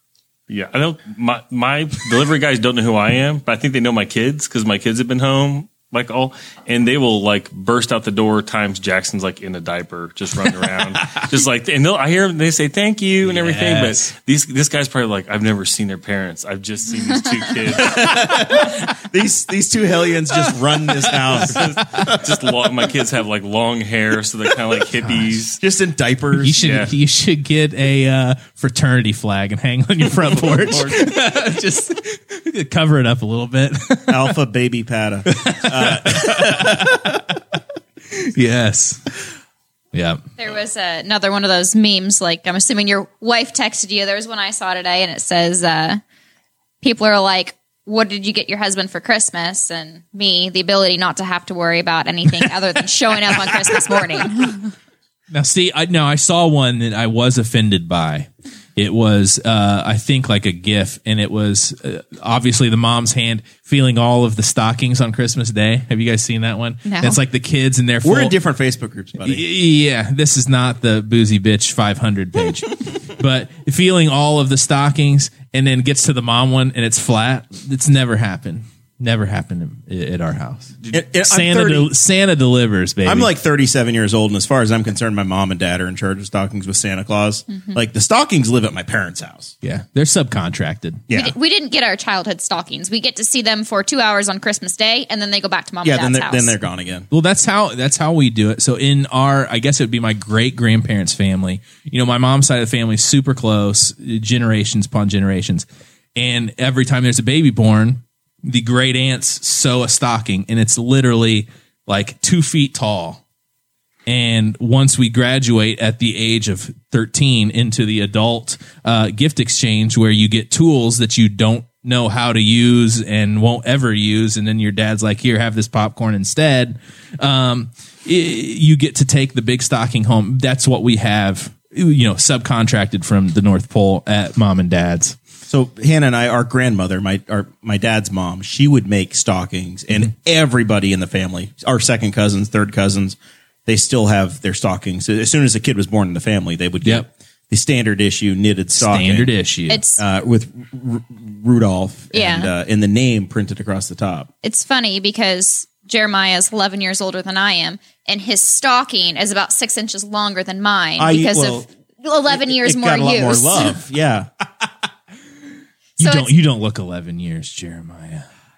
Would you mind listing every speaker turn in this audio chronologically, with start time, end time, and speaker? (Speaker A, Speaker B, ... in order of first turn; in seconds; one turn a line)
Speaker A: 0.5-18.1
Speaker B: 13.2-14.1
Speaker C: 17.8-22.2
Speaker A: 21.4-25.6
Speaker B: 25.0-25.4
Speaker C: 25.6-26.6
Speaker B: 26.4-34.3
Speaker A: 26.6-26.9
Speaker C: 30.5-31.0
Speaker C: 34.1-37.1
Speaker B: 35.3-37.2
Speaker B: 38.1-39.1
Speaker B: 39.9-40.2
Speaker D: 40.4-46.0
Speaker D: 46.8-54.7
Speaker B: 55.3-68.3
Speaker D: 66.8-67.2
Speaker C: 68.0-69.4
Speaker B: 69.2-83.3
Speaker C: 80.9-81.9
Speaker C: 83.0-89.5
Speaker D: 87.5-87.8
Speaker B: 89.6-91.0
Speaker C: 91.1-91.3
Speaker D: 91.1-96.5
Speaker C: 95.8-97.1
Speaker B: 97.1-113.2
Speaker B: 114.1-135.2
Speaker C: 135.5-149.3
Speaker B: 148.7-149.8
Speaker D: 149.7-150.0
Speaker C: 150.0-154.3
Speaker D: 152.1-152.5
Speaker D: 154.4-163.7
Speaker C: 161.0-161.7
Speaker C: 162.3-164.3
Speaker D: 166.0-166.3
Speaker B: 166.0-168.2